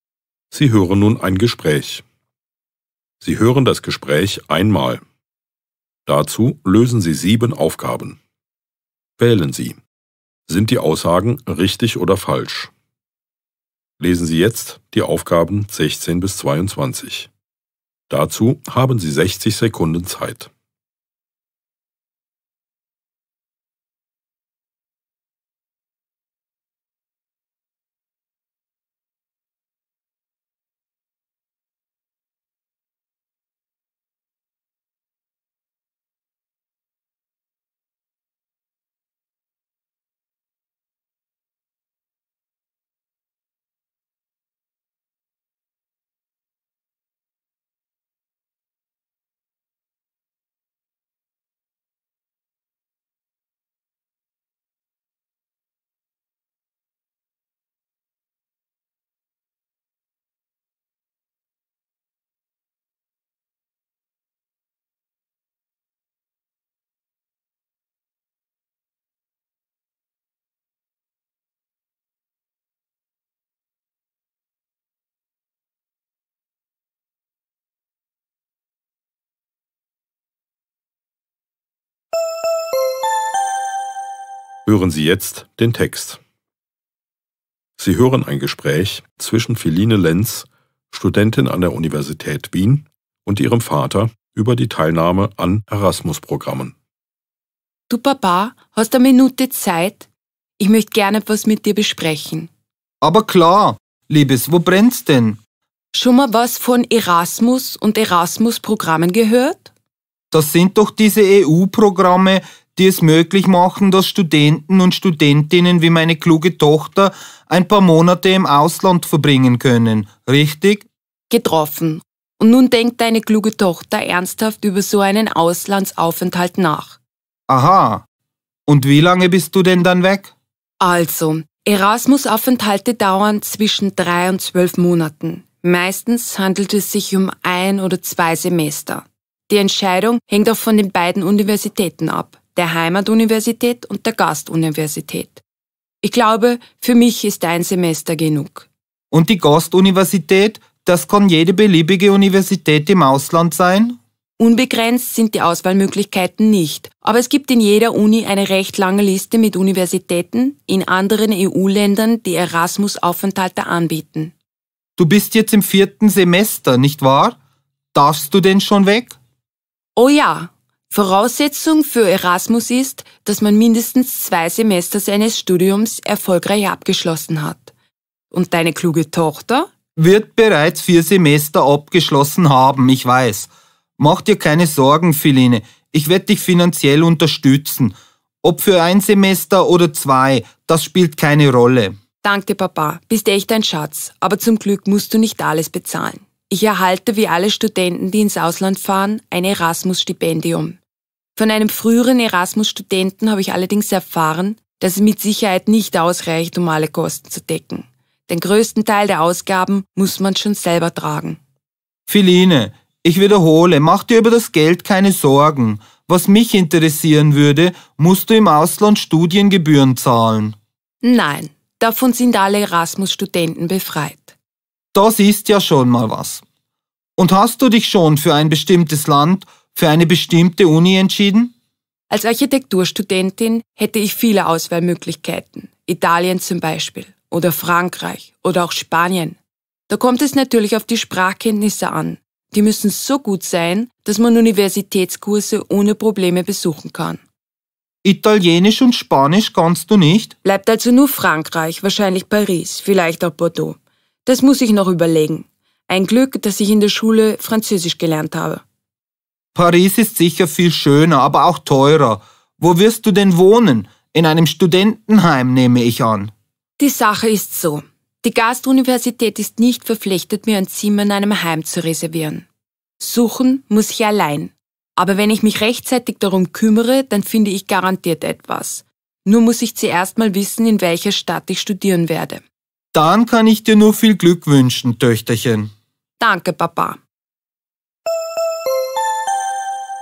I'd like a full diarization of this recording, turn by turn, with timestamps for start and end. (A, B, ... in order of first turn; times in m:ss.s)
0:00.5-0:02.0 A
0:03.2-0:05.0 A
0:06.1-0:08.2 A
0:09.2-0:09.8 A
0:10.5-0:12.7 A
0:14.0-0:17.3 A
0:18.1-0:20.5 A
1:24.6-1:26.2 A
1:27.8-1:36.7 A
1:37.9-1:42.5 B
1:43.0-1:45.4 C
1:45.9-1:49.7 B
1:50.3-2:00.9 C
2:01.3-2:07.0 B
2:07.5-2:08.0 C
2:08.7-2:10.3 C
2:10.8-2:25.4 B
2:26.0-2:28.7 B
2:29.1-2:34.0 C
2:34.4-2:44.3 B
2:45.0-2:47.4 C
2:47.9-2:49.2 C
2:50.0-2:57.7 B
2:58.3-2:59.7 B
3:00.0-3:12.0 C
3:12.2-3:20.8 B
3:21.4-3:31.4 B
3:32.1-3:40.6 C
3:41.0-3:44.4 B
3:44.9-3:46.4 C
3:47.2-3:51.5 C
3:52.1-3:59.4 B
3:59.9-4:07.2 B
4:08.0-4:10.4 C
4:10.4-4:18.6 B
4:19.6-4:26.3 C
4:26.8-4:32.5 B
4:33.0-4:42.4 B
4:42.9-4:45.7 C
4:46.2-4:47.0 B